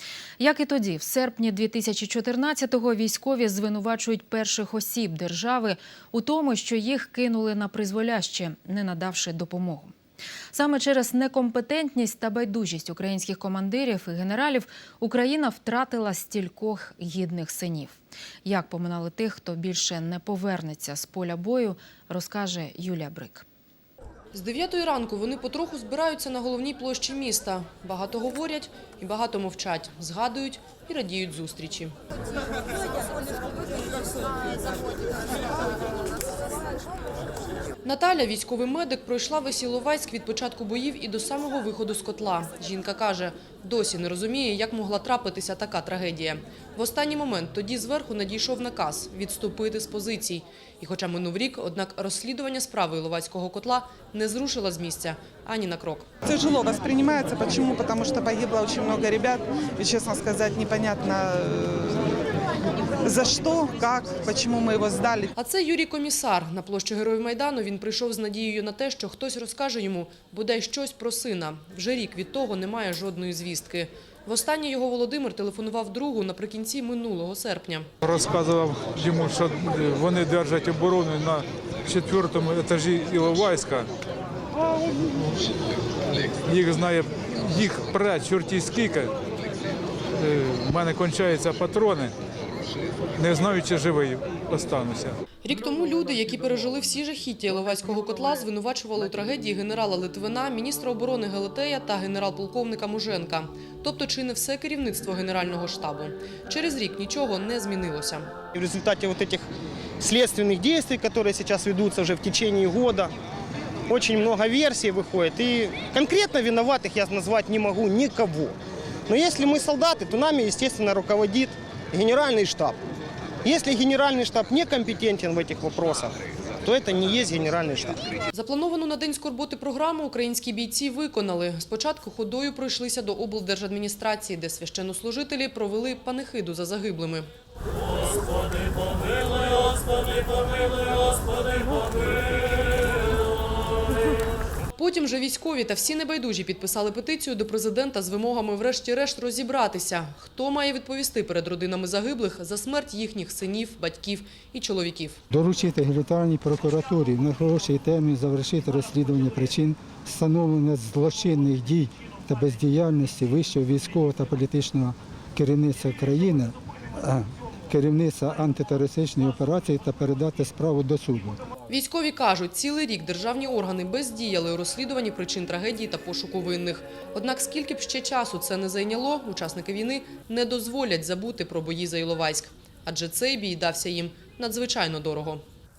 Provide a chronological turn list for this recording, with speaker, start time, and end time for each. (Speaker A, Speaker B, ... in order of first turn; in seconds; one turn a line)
Speaker A: 0.4-9.9
Speaker A: 10.5-23.4
Speaker B: 24.3-31.9
Speaker B: 37.8-56.1
Speaker C: 56.2-62.2
Speaker C: 63.0-65.3
Speaker B: 65.4-77.9
Speaker D: 78.0-83.9
Speaker D: 86.5-89.1
Speaker D: 90.2-92.1
Speaker D: 93.2-95.2
Speaker B: 95.4-108.3
Speaker E: 108.5-109.5
Speaker E: 110.0-113.1
Speaker E: 113.9-118.5
Speaker E: 119.1-122.8
Speaker E: 123.4-128.1
Speaker B: 128.3-137.2
Speaker B: 144.8-155.2
Speaker F: 155.3-171.4
Speaker B: 171.7-185.4